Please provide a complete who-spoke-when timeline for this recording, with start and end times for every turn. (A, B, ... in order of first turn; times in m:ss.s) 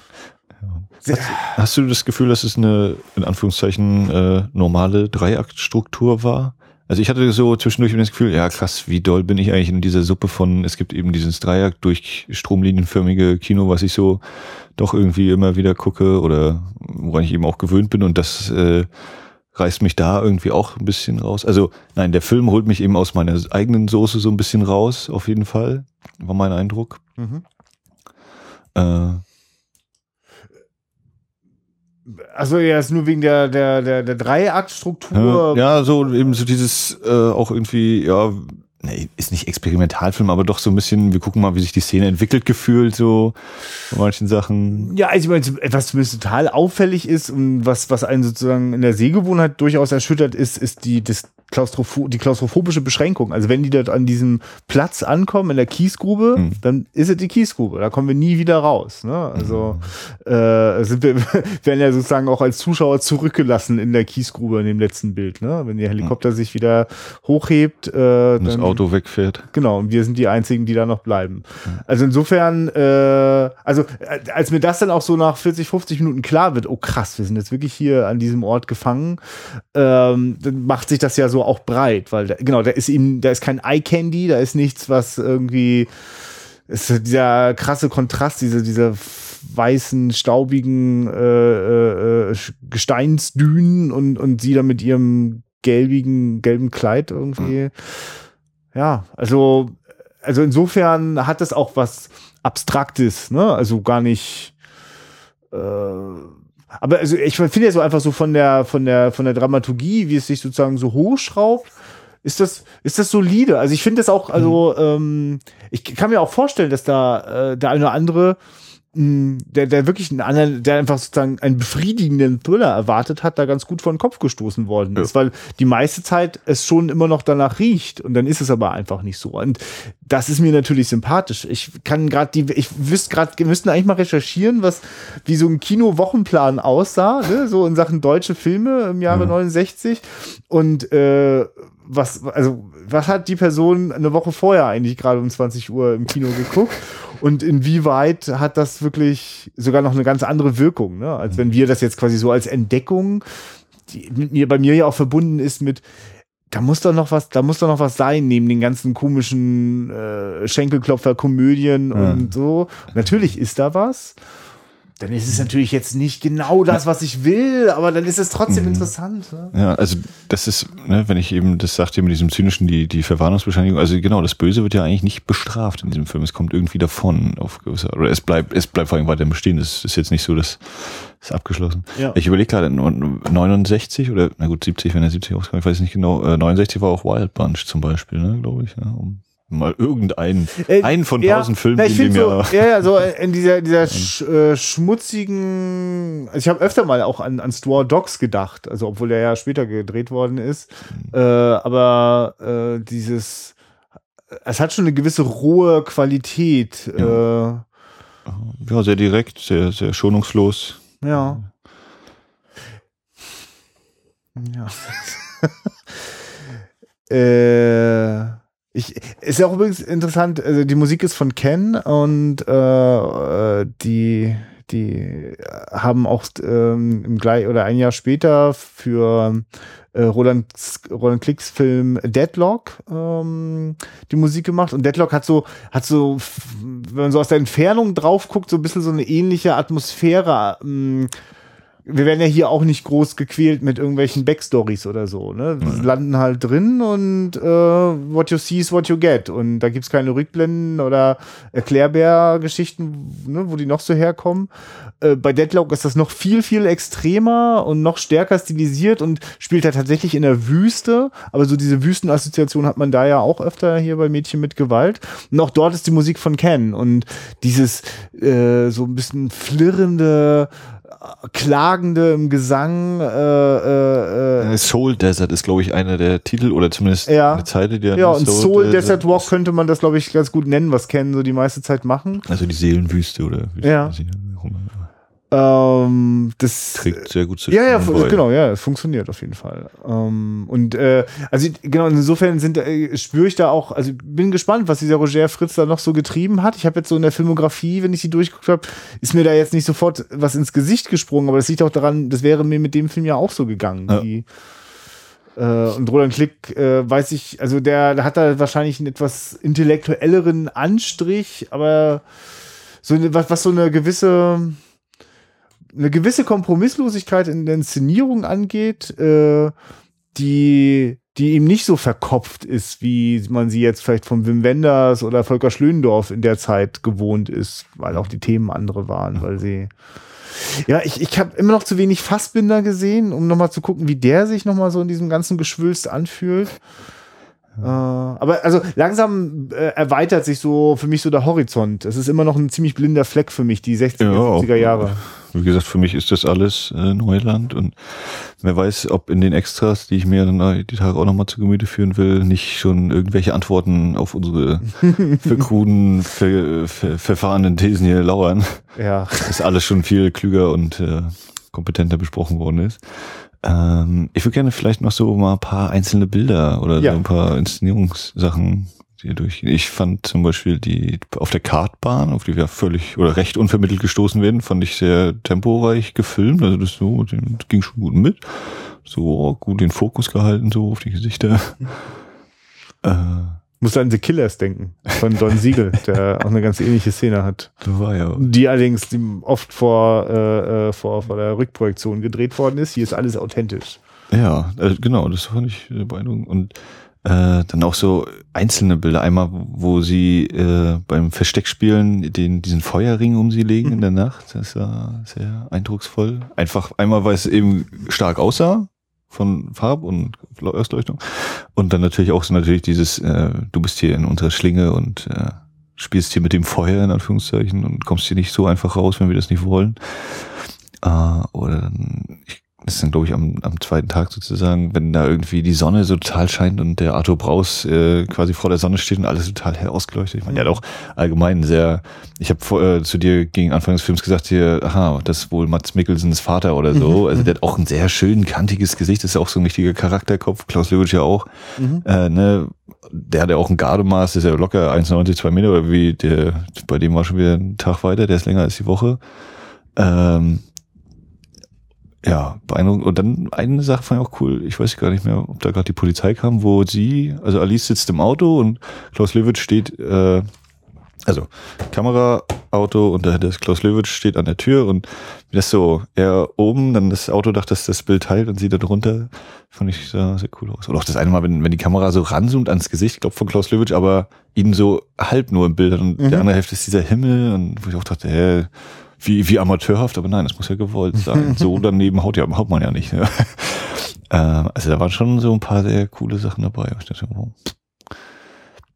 0:00.6-0:14.2 A
0:01.0-0:01.6 B
0:14.8-0:18.9 A
0:19.5-0:27.0 A
0:27.2-0:27.4 B
0:28.8-0:29.2 A
0:32.1-0:35.7 B
0:35.1-0:44.9 A
0:44.8-1:08.8 B
0:56.4-0:56.6 A
0:59.4-0:59.9 A
1:08.4-1:09.5 A
1:09.5-1:25.9 B
1:26.7-1:38.2 B
1:38.7-1:44.6 B
1:45.5-1:51.7 B
1:52.2-1:58.4 B
1:58.9-2:33.2 B
2:33.9-2:35.8 B
2:36.5-2:44.2 B
2:41.9-2:42.3 A
2:45.0-2:49.5 B
2:48.5-2:48.9 A
2:49.5-3:12.9 A
3:10.6-3:23.6 B
3:24.3-3:27.6 B
3:28.3-3:31.4 A
3:31.0-3:31.4 B
3:34.4-3:36.1 B
3:37.1-4:01.1 B
4:01.9-4:14.5 B
4:15.0-4:34.5 B
4:34.4-4:39.3 A
4:37.1-4:42.2 B
4:42.3-4:44.9 A
4:43.6-4:44.0 B
4:45.3-5:04.2 B
4:46.8-4:48.2 A
5:05.4-5:12.0 B
5:12.8-5:14.6 B
5:15.7-5:19.5 B
5:20.1-5:29.7 B
5:30.3-5:36.6 B
5:37.6-5:45.0 B
5:44.0-5:58.7 A
5:58.8-5:59.3 B
5:59.2-6:21.9 A
6:22.8-6:23.4 A
6:23.6-6:27.5 B
6:27.6-6:28.3 A
6:28.2-6:33.8 B
6:34.1-7:29.0 A
7:10.3-7:10.6 B
7:16.7-7:17.3 B
7:21.6-7:21.8 B
7:29.8-7:30.4 A
7:32.0-7:40.3 A
7:41.1-8:07.5 A
7:56.0-7:56.3 B
8:01.1-8:01.5 B